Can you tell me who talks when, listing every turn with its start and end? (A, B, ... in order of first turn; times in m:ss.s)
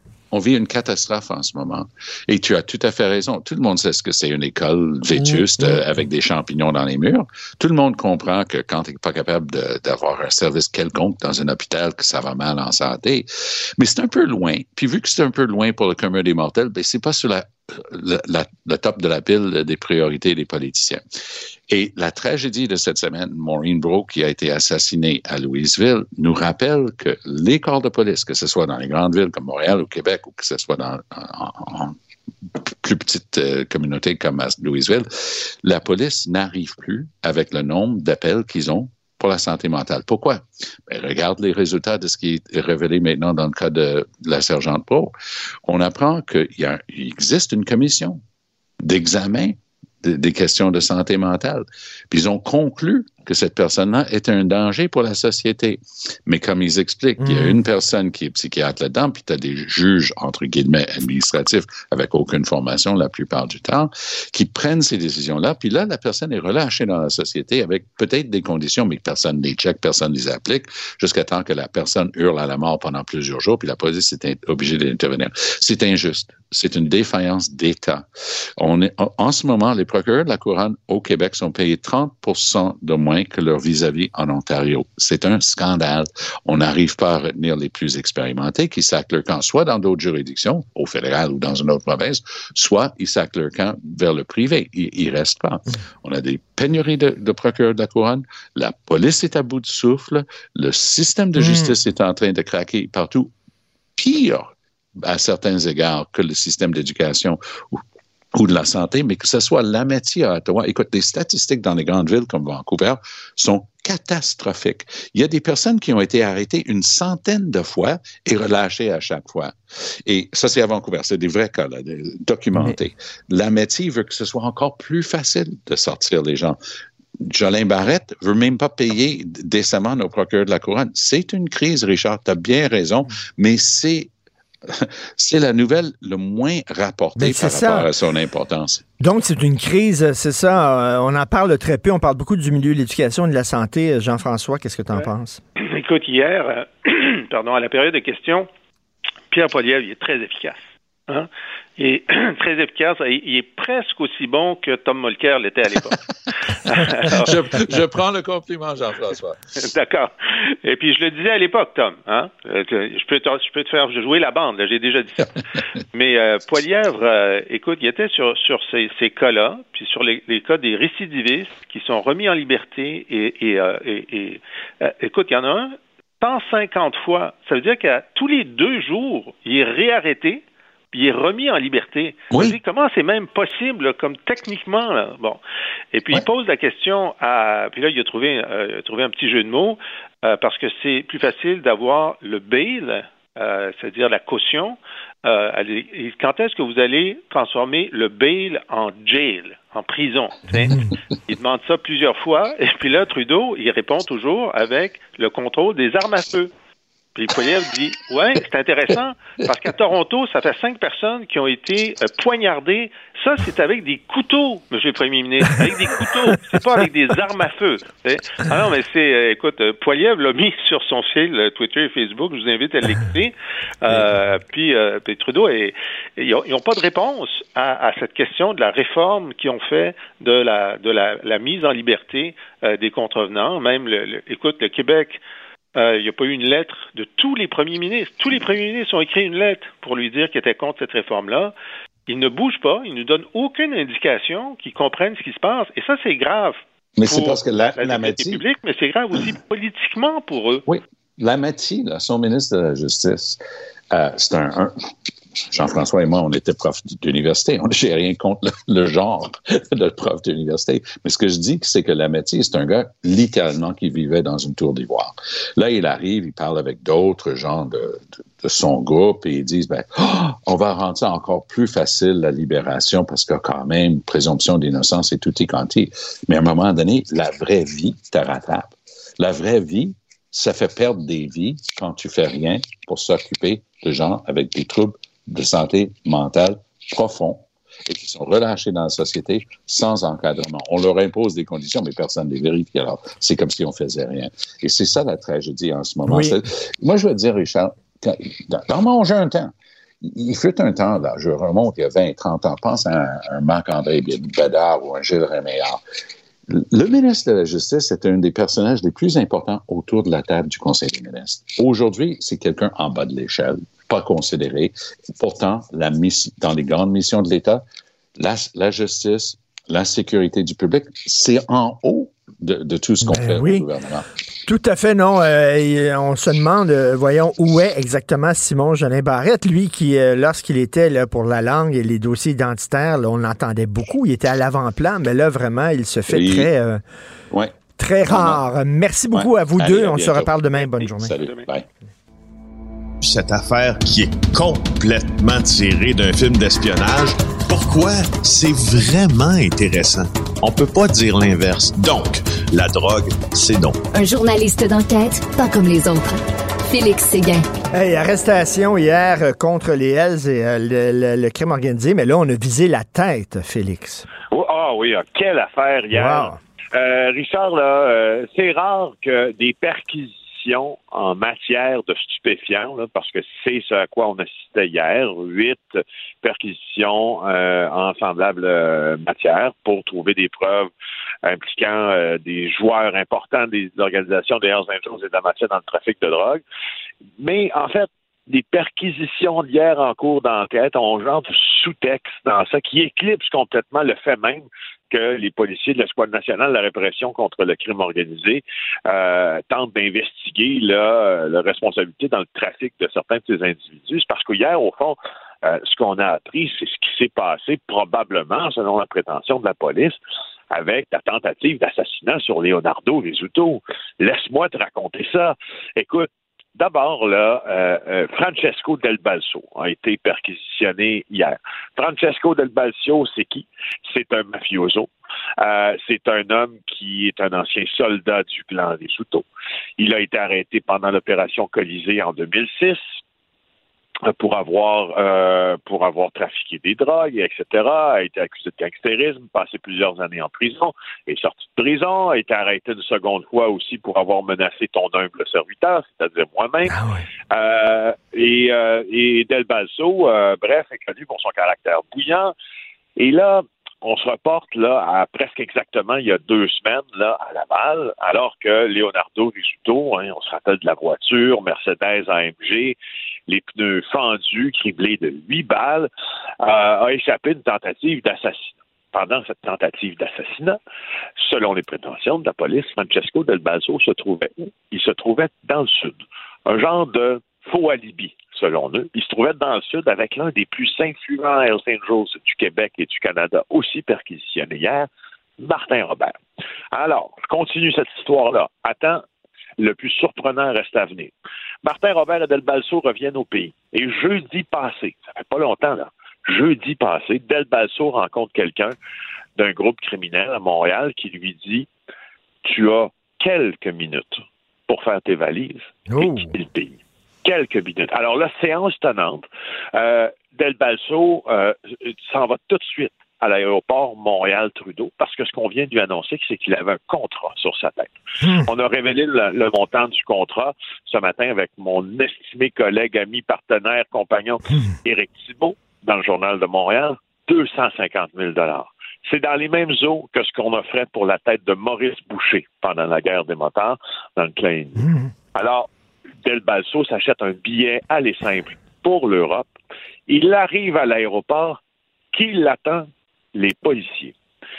0:00.3-0:21.0 A
0:05.2-0:05.8 B
0:21.7-0:32.0 A
0:32.8-0:45.1 A
0:45.6-0:48.2 A
0:48.8-1:43.3 A
0:57.2-0:57.6 B
1:41.4-1:41.8 B
1:44.0-1:47.8 A
1:48.3-2:06.6 A
2:02.5-2:02.8 B
2:07.2-2:14.1 A
2:14.7-2:18.8 A
2:17.2-2:17.9 B
2:19.0-2:25.4 B
2:24.9-2:28.5 C
2:29.3-2:36.0 C
2:36.7-2:37.4 C
2:37.1-2:39.4 A
2:39.6-2:40.1 C
2:40.6-2:45.2 C
2:45.9-3:05.4 C
3:02.3-3:02.6 A
3:05.9-3:26.5 C
3:27.1-3:55.2 C
3:55.7-4:01.5 C
4:02.1-4:10.6 C
4:07.0-4:08.4 A
4:10.7-4:13.4 A
4:13.9-4:14.7 A
4:15.5-5:05.8 A
4:56.0-4:56.4 B
5:06.5-5:17.6 A
5:18.2-5:24.0 A
5:23.0-5:23.7 B
5:24.4-5:36.8 B
5:36.1-5:36.5 A
5:37.8-5:41.1 B
5:38.1-5:38.4 A
5:39.1-5:41.6 A
5:40.6-5:41.5 C
5:43.0-5:53.8 D
5:53.9-5:56.2 E
5:56.7-5:57.5 E
5:57.7-6:04.0 B
6:04.3-6:20.7 F
6:05.9-6:06.4 B
6:21.2-6:26.4 F
6:27.2-6:50.0 F
6:50.5-7:04.9 F
7:05.4-7:09.2 F
7:09.8-7:12.8 F
7:14.0-7:26.8 F
7:26.7-7:27.0 B
7:27.3-7:32.3 F
7:33.0-7:42.8 F
7:43.3-7:45.9 F
7:46.4-7:50.6 F
7:51.2-8:06.1 F
8:06.7-8:09.0 F
8:09.6-8:11.1 F
8:11.6-8:18.7 F
8:19.4-8:21.7 F
8:22.4-8:55.7 F
8:25.9-8:26.3 B
8:38.2-8:38.5 B
8:54.8-8:55.1 B
8:56.2-8:59.5 F
9:00.1-9:01.6 F
9:02.1-9:04.1 F